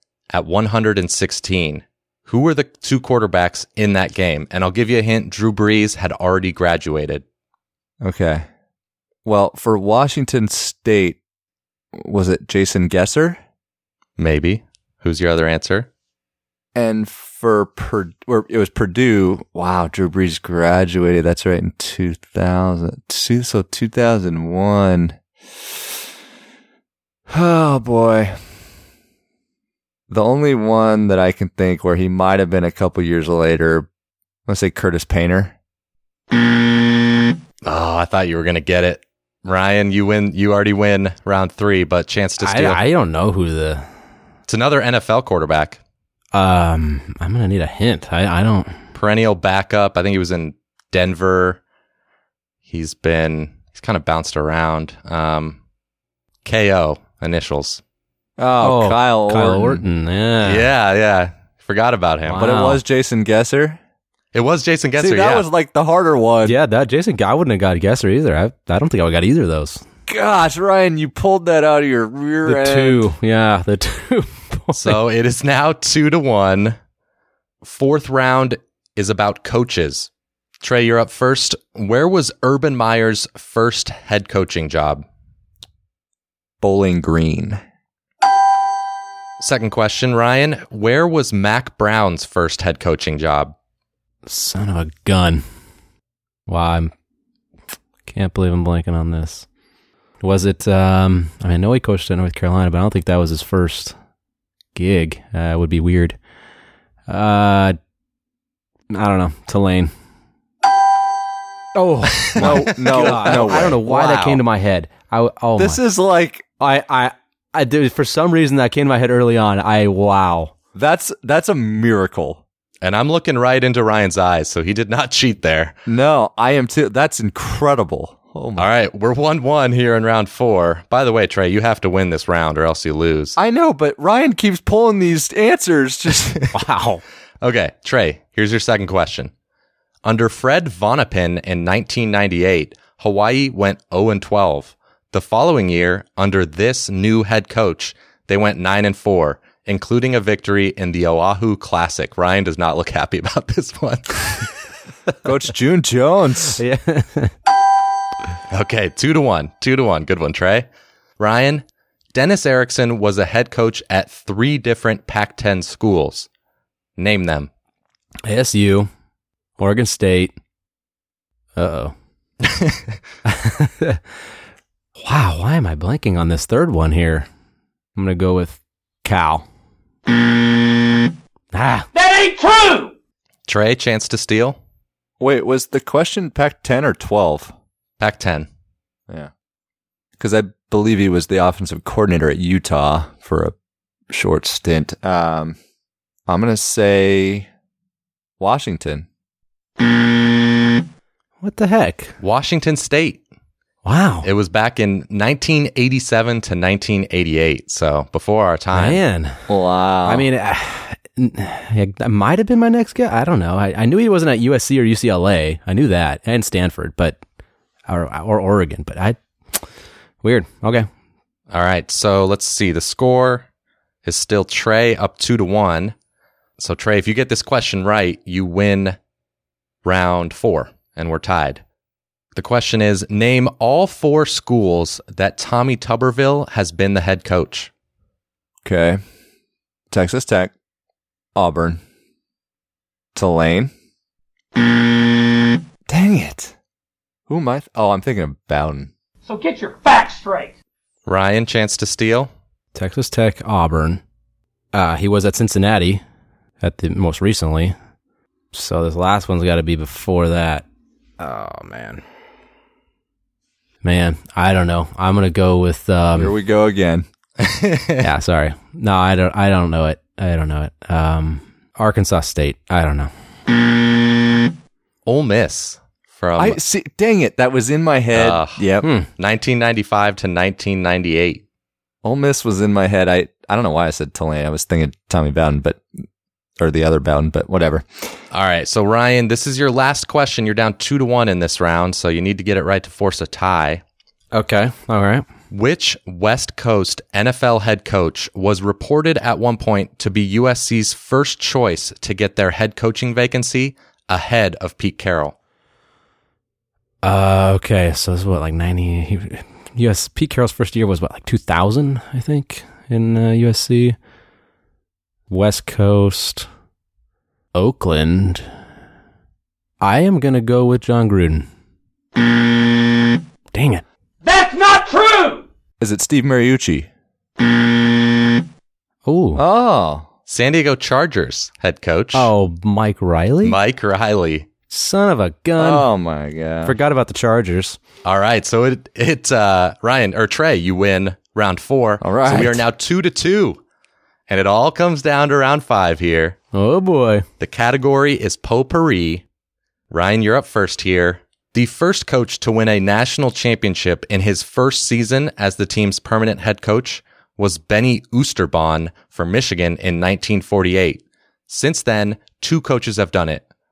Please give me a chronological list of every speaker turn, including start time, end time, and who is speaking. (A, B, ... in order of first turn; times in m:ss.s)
0:00.3-0:07.2 A
0:08.0-0:08.4 B
0:09.2-0:11.2 B
0:11.9-0:13.4 B
0:14.2-0:15.9 A
0:16.7-0:25.2 B
0:27.3-0:28.4 B
0:30.1-0:33.9 B
0:34.5-0:35.6 B
0:37.6-0:42.8 A
0:42.4-0:43.9 C
0:44.5-0:45.8 A
0:46.3-0:48.8 C
0:48.9-0:51.6 A
0:52.7-0:55.6 A
0:56.4-0:57.8 A
0:58.4-0:59.8 B
0:58.6-1:00.7 C
1:00.4-1:02.5 A
1:02.2-1:02.8 C
1:02.4-1:03.8 B
1:04.3-1:05.4 A
1:05.0-1:06.6 B
1:06.4-1:09.8 C
1:10.1-1:13.0 B
1:12.4-1:15.0 C
1:14.8-1:16.8 A
1:17.6-1:20.1 A
1:20.6-1:25.0 A
1:26.6-1:27.6 B
1:29.4-1:33.5 A
1:34.2-1:35.4 C
1:36.5-1:36.9 C
1:38.0-1:39.5 C
1:40.2-1:44.0 C
1:44.7-1:46.2 C
1:47.1-1:47.8 C
1:48.9-1:49.9 C
1:51.7-1:55.8 C
1:52.2-1:54.4 A
1:52.4-1:53.8 B
1:55.6-1:56.4 B
1:56.6-2:00.5 C
2:00.7-2:02.4 B
2:02.8-2:05.7 A
2:05.8-2:08.7 B
2:08.6-2:13.4 A
2:13.4-2:16.5 B
2:16.5-2:17.0 C
2:17.4-2:19.3 A
2:20.0-2:34.4 A
2:35.2-2:36.6 B
2:36.6-2:37.3 C
2:38.5-2:40.7 A
2:41.2-2:46.3 A
2:47.0-2:47.5 A
2:48.2-2:48.9 C
2:49.6-2:50.3 C
2:51.6-2:51.9 C
2:52.4-2:52.8 A
2:53.2-2:54.0 C
2:55.0-2:57.3 C
2:57.9-2:59.4 C
3:01.5-3:01.9 C
3:01.9-3:02.9 D
3:03.5-3:04.6 A
3:05.2-3:07.5 B
3:08.0-3:08.5 A
3:10.2-3:13.5 B
3:14.1-3:15.6 B
3:16.3-3:17.5 B
3:18.4-3:19.1 B
3:21.4-3:22.1 C
3:22.2-3:23.2 A
3:23.8-3:24.3 C
3:24.2-3:29.0 A
3:28.7-3:29.4 C
3:29.5-3:30.3 B
3:30.0-3:37.2 C
3:37.9-3:39.6 C
3:40.2-3:40.9 C
3:41.5-3:43.4 A
3:44.0-3:45.9 A
3:46.6-3:49.0 A
3:49.8-3:51.6 A
3:52.3-3:57.7 A
3:58.6-3:59.0 B
3:59.9-4:00.5 B
4:01.3-4:01.8 B
4:03.1-4:03.7 B
4:05.9-4:06.5 B
4:07.3-4:08.9 B
4:09.2-4:10.5 D
4:11.0-4:12.3 A
4:12.7-4:14.0 C
4:14.7-4:16.0 C
4:16.6-4:17.7 C
4:18.5-4:20.6 C
4:21.2-4:22.0 C
4:23.8-4:26.3 C
4:26.2-4:27.0 B
4:27.4-4:28.0 A
4:28.0-4:33.1 C
4:35.0-4:36.6 A
4:36.4-4:38.9 B
4:38.1-4:38.6 A
4:38.8-4:39.1 C
4:39.2-4:41.4 A
4:42.0-4:45.8 B
4:46.6-4:47.9 B
4:48.3-4:53.8 A
4:54.3-4:55.2 C
4:55.5-5:05.3 A
5:07.0-5:14.0 C
5:15.3-5:16.4 C
5:17.5-5:18.4 C
5:19.8-5:21.5 C
5:23.5-5:23.8 C
5:24.2-5:25.4 D
5:25.8-5:26.9 B
5:29.0-5:29.4 C
5:29.3-5:30.1 B
5:30.3-5:32.3 A
5:32.1-5:33.6 C
5:33.4-5:34.5 A
5:34.7-5:35.9 C
5:35.6-5:36.8 B
5:36.6-5:37.8 C
5:38.0-5:43.6 A
5:42.0-5:42.6 B
5:44.3-5:46.4 A
5:46.5-5:47.2 C
5:47.4-5:49.2 A
5:49.9-6:03.4 A